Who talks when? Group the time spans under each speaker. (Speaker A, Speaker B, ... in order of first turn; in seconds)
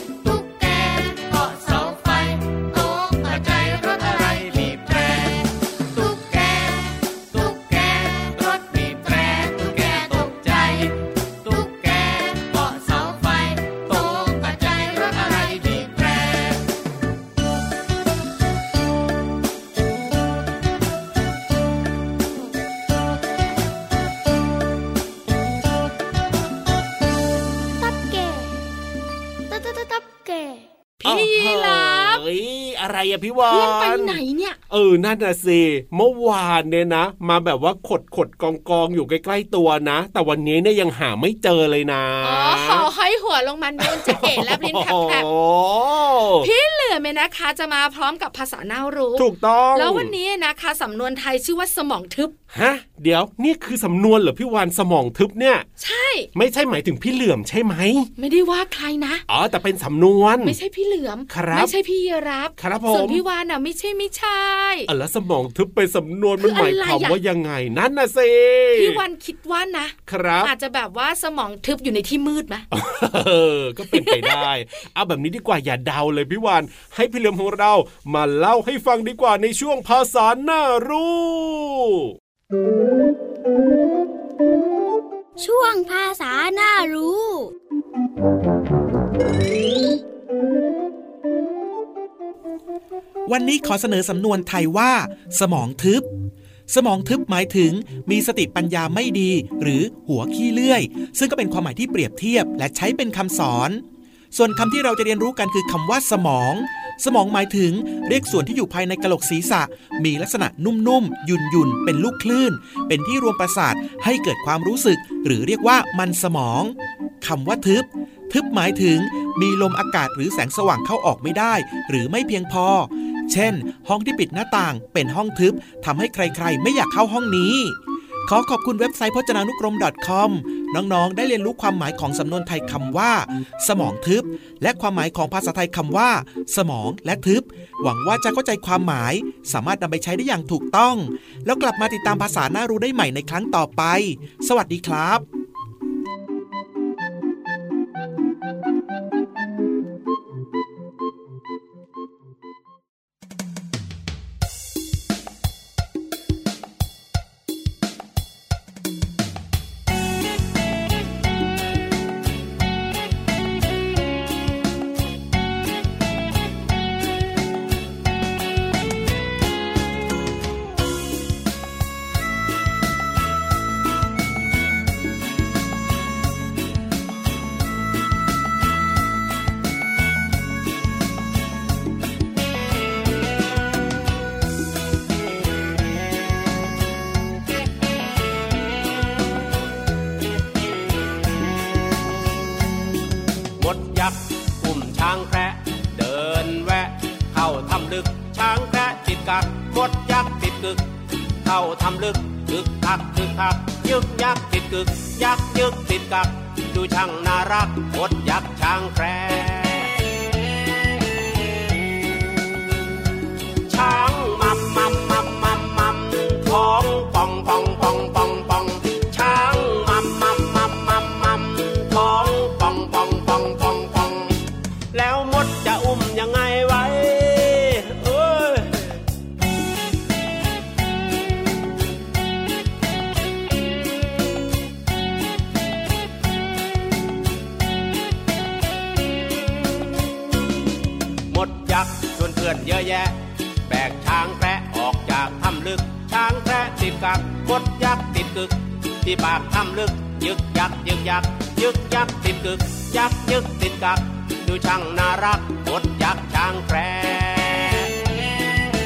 Speaker A: 0.2-16.6, 85.4-87.1
Speaker B: 27.8-28.6, 29.5-30.7
Speaker C: 31.0-32.2, 33.5-34.6, 42.2-45.3, 46.4-52.3, 55.8-56.3, 58.2-59.2, 60.5-64.9, 66.4-67.2, 68.8-72.7, 73.9-74.5
Speaker D: 31.0-42.9, 43.8-46.5, 49.2-50.1, 52.5-55.7, 56.4-58.1, 59.3-60.6, 61.3-61.7, 62.6-63.2, 64.9-69.0, 70.1-70.5, 72.7-82.1
Speaker E: 93.3-96.1, 96.7-145.2
Speaker F: 193.6-200.9, 201.4-209.9, 213.7-224.3, 224.9-229.0, 241.3-257.9